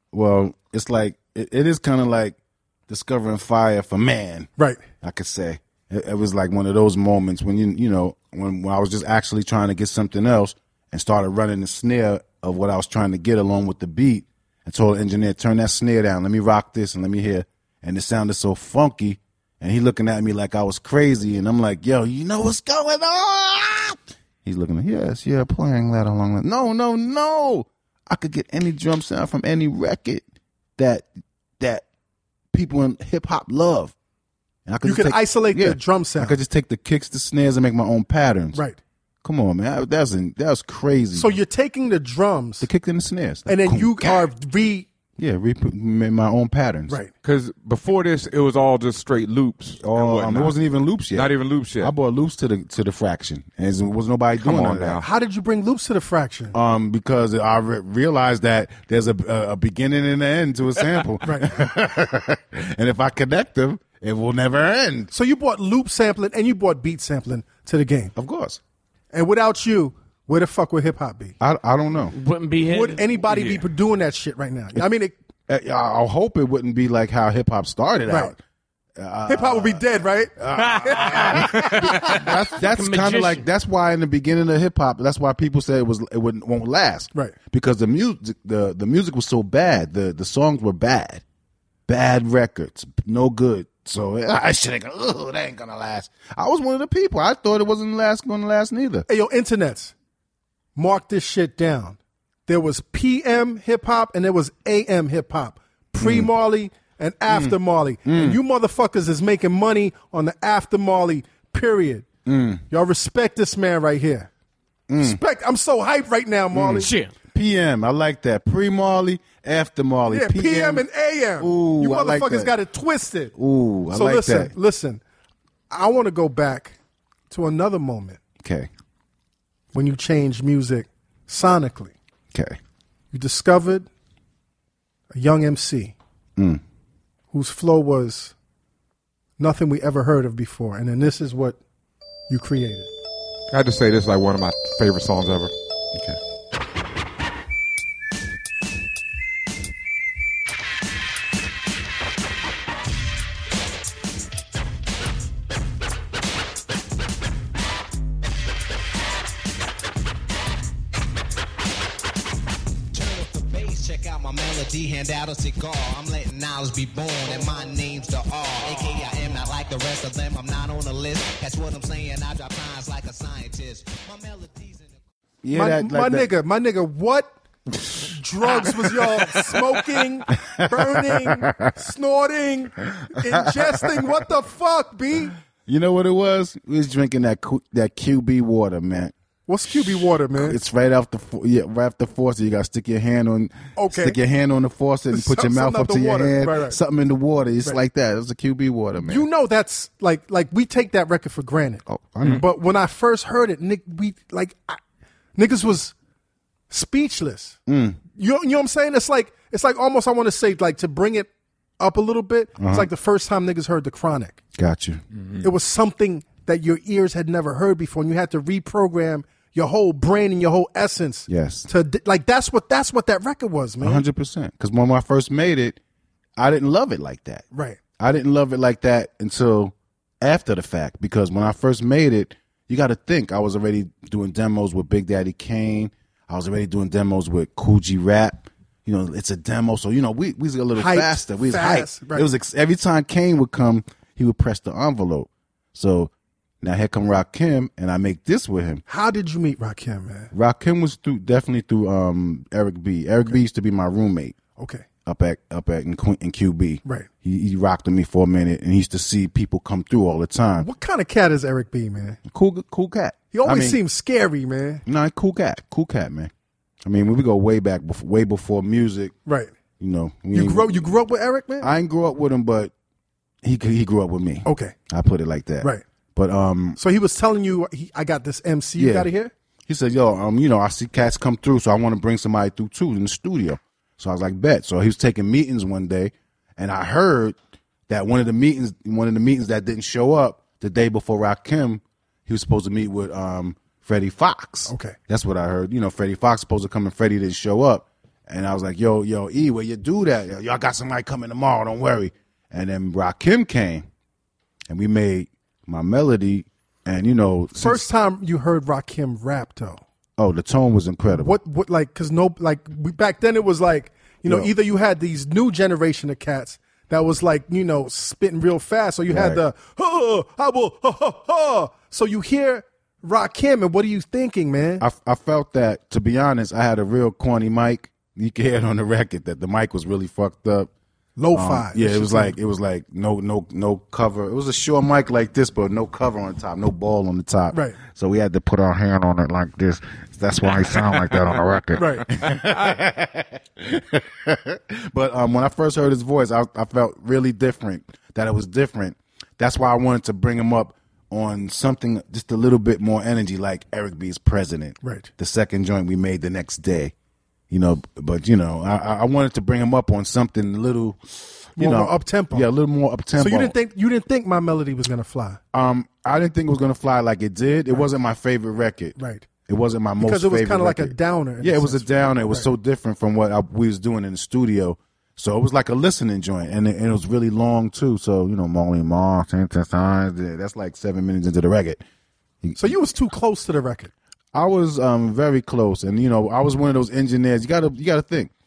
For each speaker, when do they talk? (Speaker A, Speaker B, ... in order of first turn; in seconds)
Speaker A: 0.1-2.4, 2.9-4.5, 5.0-30.2, 30.8-31.1, 31.6-31.9, 32.5-33.9, 34.7-38.6, 39.2-41.4, 42.6-44.3, 45.2-47.0, 49.8-55.0, 56.5-65.1, 68.2-68.6, 71.4-72.2, 75.5-78.4, 79.0-79.8, 80.4-91.2, 91.9-99.1, 106.0-106.3, 107.3-108.4, 112.2-112.6, 114.9-115.2, 116.5-120.9, 121.4-122.5, 123.3-124.5, 128.4-128.7, 132.3-132.6, 136.4-136.6, 175.4-176.3, 178.6-179.6, 180.5-181.8, 182.9-184.1, 185.7-189.1, 190.3-199.3, 201.9-202.5, 207.7-208.0, 212.6-212.9, 214.6-215.0, 221.3-221.7, 223.8-225.8, 226.4-227.4, 228.0-248.8, 250.3-254.4, 255.1-260.7, 262.3-263.8, 264.9-266.3, 266.8-269.1, 269.8-270.9, 271.6-272.7, 273.4-276.8, 278.8-279.1, 279.7-287.4, 287.9-303.9, 304.7-307.9, 310.2-311.4, 314.2-314.5, 319.1-319.4, 324.8-330.7, 331.3-356.9, 357.5-363.6, 365.5-369.0, 369.5-381.8, 382.4-382.7, 384.3-388.3
Speaker B: 34.8-36.4, 38.5-38.8, 41.1-42.7, 43.5-44.9, 55.0-56.5, 61.2-61.5, 65.1-68.1, 69.1-71.4, 72.6-75.2, 78.1-78.3, 79.3-82.3, 99.1-99.9, 100.8-112.1, 112.7-114.3, 115.0-116.9, 120.1-123.3, 123.9-125.0, 125.7-126.8, 127.3-128.2, 129.7-131.9, 133.1-133.9, 135.1-136.0, 137.3-138.3, 139.4-141.6, 142.3-142.9, 175.5-177.3, 178.0-185.3, 189.5-190.6, 193.8-194.2, 195.1-196.8, 199.0-204.8, 205.4-205.9, 206.7-207.6, 208.2-214.4, 215.4-224.0, 227.5-227.8, 240.8-242.3, 248.9-250.3, 254.6-254.8, 260.6-262.2, 263.3-264.8, 269.3-269.5, 270.3-271.7, 274.4-274.8, 276.8-279.3, 294.7-295.0, 307.6-309.8, 311.1-324.8, 331.2-332.4, 337.5-337.8, 341.8-342.1, 354.8-355.1, 361.6-362.5, 363.2-365.4, 369.0-369.3, 370.0-372.5, 382.6-383.9
Speaker C: 47.2-51.9, 54.4-55.1, 143.5-145.5
Speaker D: 72.1-73.6, 81.4-83.5, 116.8-117.1
Speaker E: 162.9-174.8